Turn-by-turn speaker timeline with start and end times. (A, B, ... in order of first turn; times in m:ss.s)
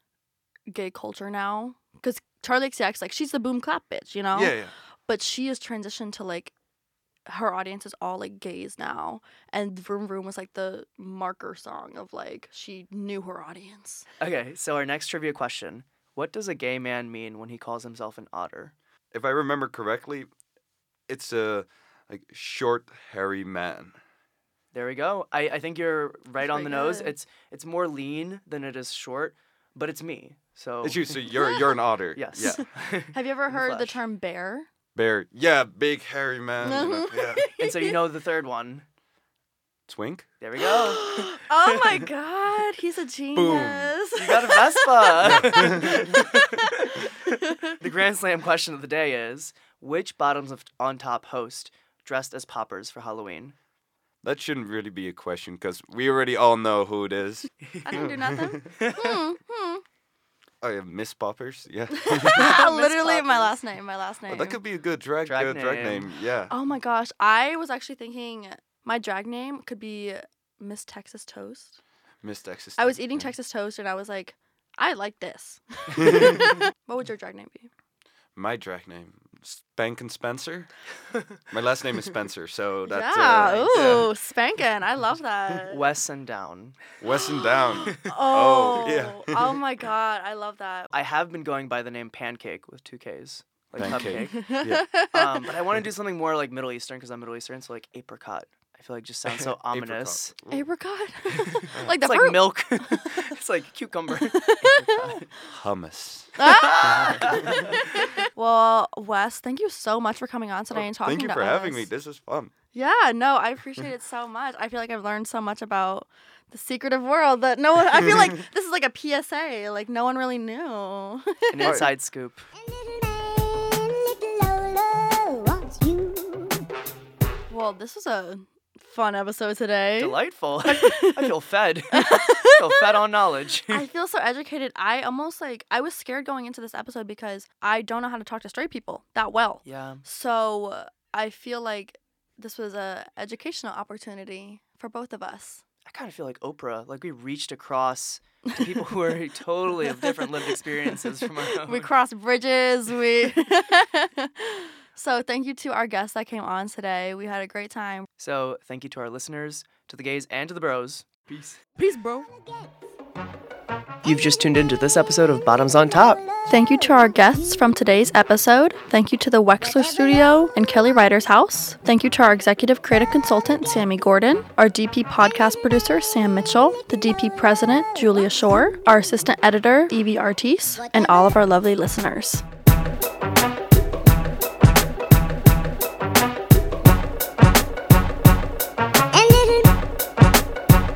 0:00.7-0:06.5 A
0:04.3-0:04.7 B
0:07.3-0:14.0 A
0:14.2-0:18.7 C
0:19.1-0:20.3 B
0:21.1-0:24.0 B
0:24.7-0:31.2 C
0:26.4-0:27.1 A
0:30.8-0:32.7 B
0:31.4-0:31.7 A
0:32.2-0:34.0 C
0:33.1-0:34.7 A
0:34.9-0:37.4 B
0:36.6-0:38.0 A
0:37.6-0:38.8 C
0:39.9-0:40.3 B
0:40.4-0:42.0 C
0:40.6-0:47.0 A
0:43.3-0:43.9 B
0:44.2-0:47.2 C
0:45.2-0:46.1 B
0:47.7-0:53.5 C
0:54.2-0:58.6 B
0:57.8-0:59.8 A
0:58.7-0:59.2 C
1:00.6-1:02.6 B
1:02.1-1:04.6 A
1:02.3-1:03.5 C
1:04.3-1:06.5 B
1:05.2-1:06.1 C
1:06.5-1:11.8 A
1:12.2-1:13.3 B
1:12.8-1:17.7 A
1:16.0-1:16.4 B
1:16.0-1:16.4 C
1:18.4-1:20.7 B
1:21.5-1:24.1 B
1:22.9-1:25.8 A
1:25.7-1:26.8 C
1:27.0-1:29.6 B
1:27.1-1:30.9 A
1:30.9-1:40.4 C
1:33.8-1:34.9 B
1:33.8-1:35.4 A
1:39.2-1:40.6 B
1:40.5-1:43.1 A
1:41.3-1:45.3 C
1:44.3-1:45.2 A
1:45.5-1:47.6 B
1:46.4-1:51.9 A
1:46.4-1:47.8 C
1:50.7-1:52.5 B
1:52.7-2:01.8 A
2:01.5-2:02.4 C
2:01.6-2:01.9 B
2:02.5-2:06.6 D
2:07.5-2:10.2 A
2:10.0-2:13.8 C
2:10.7-2:11.3 A
2:11.9-2:12.8 A
2:13.7-2:25.6 A
2:19.6-2:20.0 C
2:25.8-2:31.9 C
2:29.9-2:30.6 A
2:31.5-2:38.1 A
2:38.2-2:41.6 C
2:41.8-2:42.3 A
2:42.2-2:42.8 D
2:44.0-2:46.2 C
2:45.7-2:47.6 D
2:46.4-3:02.4 A
2:49.6-2:50.5 D
3:00.8-3:01.4 D
3:09.1-3:09.8 D